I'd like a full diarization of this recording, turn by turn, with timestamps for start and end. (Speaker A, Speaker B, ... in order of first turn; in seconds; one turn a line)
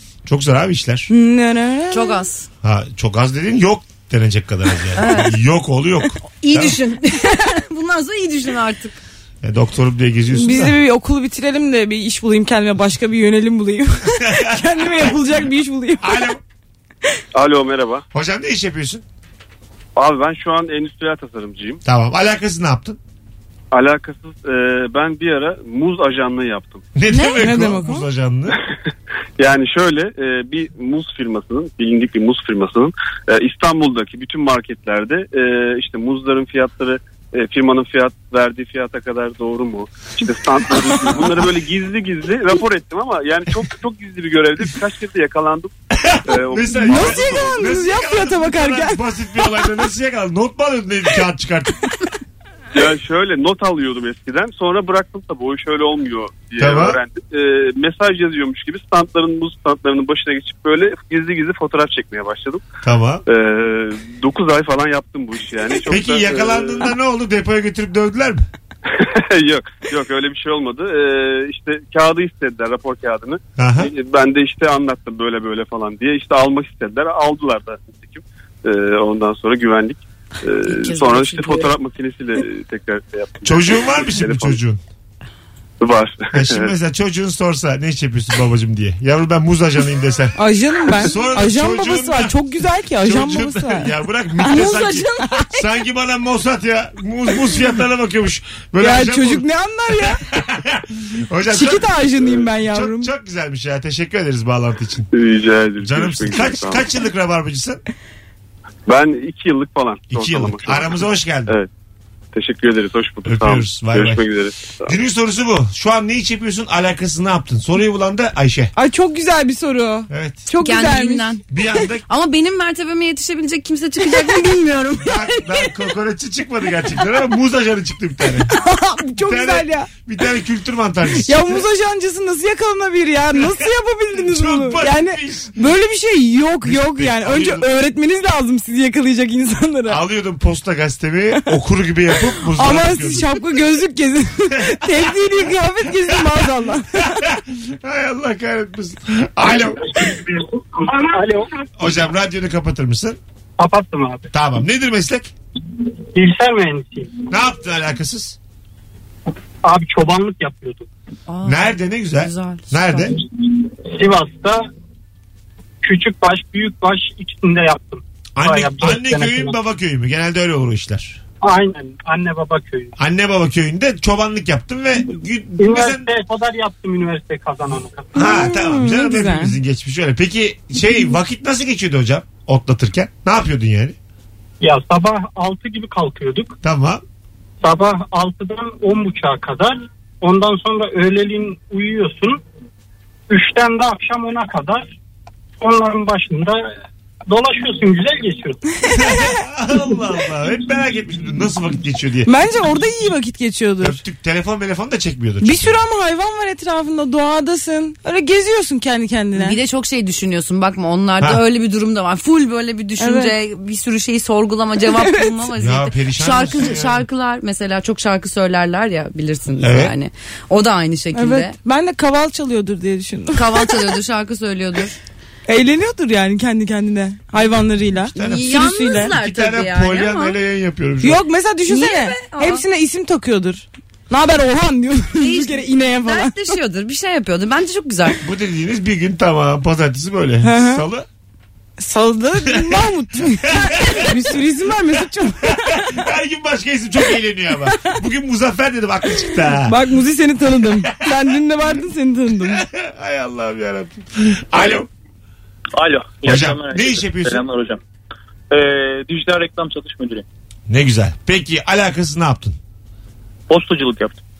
Speaker A: 0.2-1.1
Speaker B: 1.1-2.2
Speaker C: 1.9-2.5
Speaker A: 2.6-6.8
Speaker C: 5.0-5.3
Speaker C: 6.4-9.0
Speaker A: 9.4-10.8
Speaker B: 10.3-16.2
Speaker A: 14.1-15.2
Speaker A: 16.0-16.4
Speaker D: 17.3-18.0
Speaker A: 18.1-19.0
Speaker D: 20.0-21.8
Speaker A: 21.9-23.0
Speaker D: 23.7-26.9
Speaker A: 26.9-28.6
Speaker C: 27.1-27.4
Speaker B: 27.4-28.1
Speaker D: 29.4-45.7
Speaker A: 45.9-51.9
Speaker D: 46.3-47.6
Speaker B: 46.8-49.0
Speaker D: 52.7-62.6
Speaker A: 56.6-57.0
Speaker A: 62.8-63.2
Speaker D: 63.3-66.9
Speaker A: 65.9-68.5
Speaker D: 68.9-84.6
Speaker A: 73.6-73.9
Speaker C: 80.7-81.7
Speaker A: 83.5-84.8
Speaker D: 85.8-86.7
Speaker A: 86.3-90.4
Speaker B: 90.4-93.9
Speaker A: 90.9-92.4
Speaker A: 93.0-99.5
Speaker B: 94.4-95.2
Speaker C: 94.5-95.2
Speaker B: 98.8-100.2
Speaker A: 100.0-105.1
Speaker B: 101.5-103.1
Speaker D: 105.1-106.8
Speaker A: 105.8-107.8
Speaker D: 108.9-111.7
Speaker A: 110.1-111.5
Speaker D: 112.3-115.0
Speaker A: 113.2-114.2
Speaker A: 114.8-118.7
Speaker B: 118.8-121.3
Speaker A: 120.1-120.4
Speaker C: 120.6-121.5
Speaker A: 121.5-122.0
Speaker C: 122.1-125.5
Speaker B: 124.0-124.7
Speaker A: 125.0-128.5
Speaker B: 128.5-129.9
Speaker A: 129.2-131.6
Speaker B: 131.2-140.0
Speaker A: 133.3-135.5
Speaker A: 136.6-137.7
Speaker A: 139.9-143.4
Speaker B: 142.5-147.2
Speaker A: 144.6-145.3
Speaker A: 146.9-150.2
Speaker E: 150.8-151.5
Speaker A: 151.8-153.2
Speaker E: 153.6-154.3
Speaker A: 154.3-155.3
Speaker E: 156.1-157.2
Speaker A: 157.3-158.4
Speaker E: 159.6-160.9
Speaker C: 161.3-163.2
Speaker A: 161.4-163.2
Speaker E: 163.8-164.6
Speaker E: 165.8-169.6
Speaker A: 168.4-171.2
Speaker E: 171.4-172.9
Speaker A: 173.0-176.1
Speaker E: 175.6-178.2
Speaker A: 178.1-184.0
Speaker B: 178.2-179.6
Speaker E: 184.6-186.6
Speaker A: 186.6-187.0
Speaker E: 187.6-192.4
Speaker E: 193.3-194.9
Speaker E: 195.6-196.6
Speaker E: 197.3-198.6
Speaker A: 198.9-202.3
Speaker B: 199.0-199.3
Speaker B: 202.2-204.0
Speaker A: 203.8-205.8
Speaker B: 205.4-209.6
Speaker C: 209.3-221.5
Speaker B: 213.0-213.3
Speaker B: 214.8-215.3
Speaker A: 215.6-217.0
Speaker A: 219.6-220.0
Speaker B: 221.1-223.7
Speaker C: 223.3-224.9
Speaker B: 225.5-229.1
Speaker A: 228.1-231.2
Speaker C: 228.2-230.4
Speaker B: 231.0-236.5
Speaker C: 231.7-232.6
Speaker C: 235.2-238.2
Speaker A: 238.2-241.1
Speaker B: 240.4-240.8
Speaker B: 241.8-245.9
Speaker A: 242.5-242.8
Speaker A: 243.4-244.2
Speaker A: 245.4-249.8
Speaker B: 249.6-252.6
Speaker A: 252.4-254.9
Speaker F: 255.7-257.8
Speaker A: 256.2-257.4
Speaker F: 258.5-260.2
Speaker A: 260.7-262.6
Speaker F: 263.5-264.2